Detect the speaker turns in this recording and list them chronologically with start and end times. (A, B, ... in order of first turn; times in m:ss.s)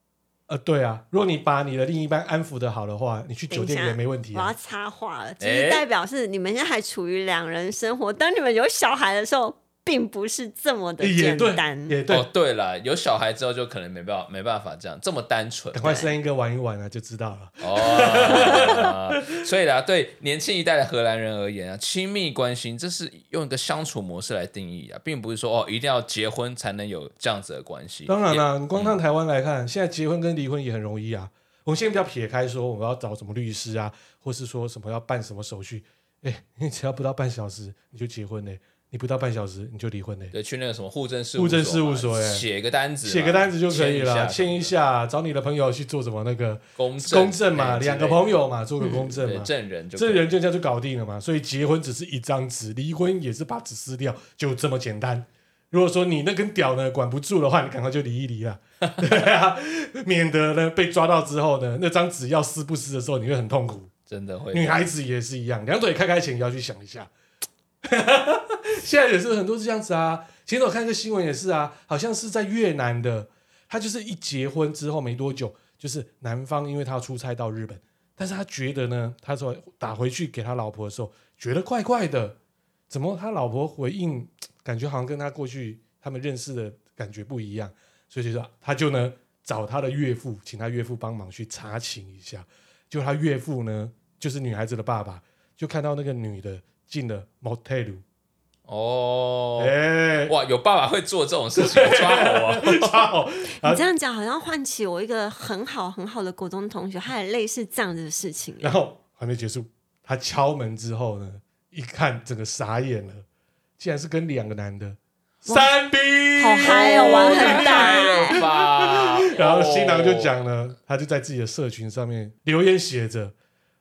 0:00.5-0:04.5 A
0:03.5-0:12.0 B
0:05.4-0:05.8 C
0:11.0-0:12.3 A
0:12.1-0:15.9 C
0:15.7-0:19.4 A
0:15.8-0:16.1 B
0:17.6-0:29.0 C
0:28.1-0:40.3 A
0:40.3-0:44.7 C
0:41.4-0:42.5 A
0:43.0-1:03.9 A
0:46.8-0:48.4 C
0:48.9-0:50.3 C
1:04.1-1:04.8 C
1:04.5-1:07.1 A
1:07.8-1:22.4 A
1:22.9-1:38.0 A
1:38.7-1:39.8 C
1:39.6-1:40.3 A
1:40.3-1:43.1 C
1:41.6-1:43.8 A
1:43.6-1:48.8 B
1:48.6-1:53.2 A
1:53.8-2:03.3 A
1:55.5-1:55.7 B
1:56.4-1:58.4 B
1:56.6-2:00.3 C